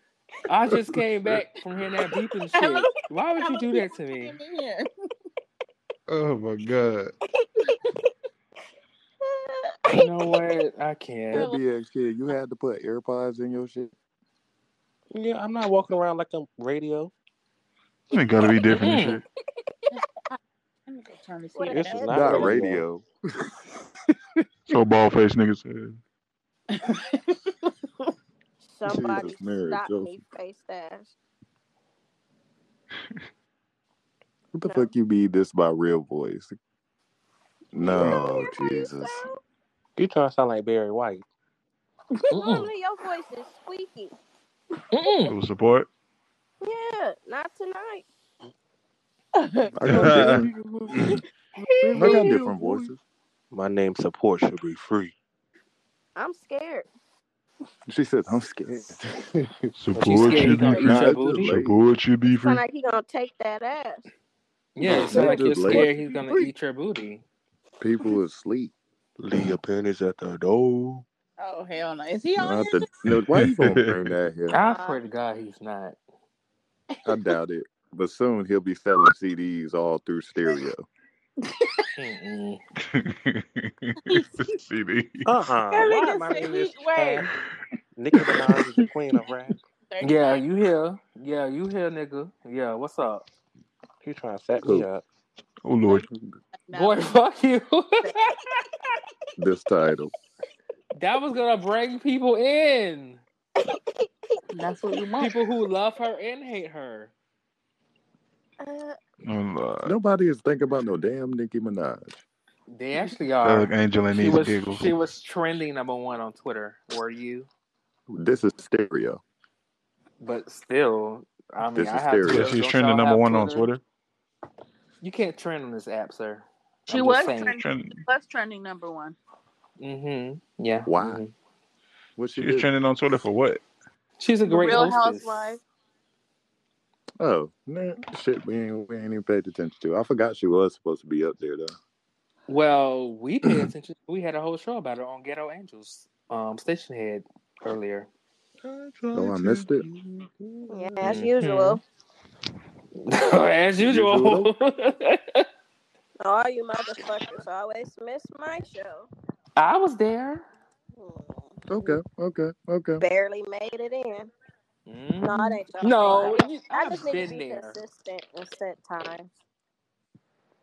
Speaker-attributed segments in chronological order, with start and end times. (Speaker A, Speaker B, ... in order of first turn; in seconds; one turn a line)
Speaker A: 0.5-4.4
Speaker B: 2.5-2.9
Speaker B: 3.4-4.8
Speaker C: 6.1-7.1
Speaker A: 9.9-11.5
Speaker D: 11.3-13.9
Speaker E: 15.1-17.1
Speaker C: 18.1-19.2
Speaker A: 18.7-19.2
Speaker B: 20.9-22.5
Speaker F: 21.5-22.5
Speaker E: 21.6-22.8
Speaker D: 22.0-23.1
Speaker C: 24.7-26.0
Speaker F: 28.6-31.1
Speaker D: 28.9-30.1
Speaker D: 34.5-36.5
Speaker F: 34.6-34.9
Speaker D: 37.7-39.2
Speaker F: 37.8-39.4
Speaker E: 40.0-41.2
Speaker A: 42.3-42.7
Speaker F: 42.3-44.1
Speaker A: 44.9-45.3
Speaker C: 45.2-45.9
Speaker F: 46.6-48.0
Speaker B: 49.4-49.7
Speaker D: 49.7-51.2
Speaker C: 49.8-50.5
Speaker B: 51.7-52.9
Speaker D: 51.8-53.0
Speaker E: 53.5-55.1
Speaker F: 56.1-56.9
Speaker D: 57.9-59.0
Speaker C: 59.8-62.6
Speaker A: 59.9-61.5
Speaker D: 60.0-61.8
Speaker F: 62.4-64.0
Speaker A: 64.8-67.2
Speaker D: 64.8-65.9
Speaker D: 67.8-68.7
Speaker E: 69.2-71.0
Speaker B: 71.4-72.8
Speaker D: 72.3-74.6
Speaker C: 73.3-74.0
Speaker A: 74.5-76.0
Speaker F: 74.6-75.0
Speaker D: 77.0-80.8
Speaker A: 82.0-82.6
Speaker C: 83.0-83.4
Speaker C: 83.9-85.3
Speaker E: 85.2-87.3
Speaker B: 85.7-87.3
Speaker E: 88.0-89.6
Speaker B: 89.9-90.4
Speaker A: 90.0-93.2
Speaker E: 94.0-95.0
Speaker D: 94.6-94.9
Speaker C: 95.6-96.0
Speaker B: 96.7-97.0
Speaker A: 96.7-98.2
Speaker D: 99.4-100.1
Speaker A: 100.9-103.2
Speaker F: 103.7-104.4
Speaker B: 104.5-105.4
Speaker A: 105.2-107.1
Speaker F: 108.6-109.0
Speaker C: 109.2-109.9
Speaker D: 109.8-112.2
Speaker A: 112.7-117.5
Speaker C: 113.4-114.9
Speaker D: 118.1-119.2
Speaker A: 120.2-123.7
Speaker D: 121.7-122.5
Speaker C: 122.2-123.8
Speaker A: 125.0-127.6
Speaker B: 126.9-129.2
Speaker C: 127.5-128.0
Speaker A: 129.8-131.3
Speaker D: 130.8-131.2
Speaker D: 132.2-132.7
Speaker C: 132.3-133.6
Speaker A: 134.2-135.6
Speaker B: 134.4-135.6
Speaker D: 137.2-141.7
Speaker A: 142.5-148.1
Speaker E: 148.6-151.0
Speaker D: 149.1-149.8
Speaker F: 150.7-151.8
Speaker A: 151.0-151.8
Speaker A: 153.1-155.4
Speaker D: 153.8-154.5
Speaker F: 156.2-159.1
Speaker A: 159.6-160.4
Speaker F: 161.0-161.6
Speaker D: 161.7-163.0
Speaker F: 163.0-164.3
Speaker A: 164.9-167.8
Speaker F: 165.2-169.3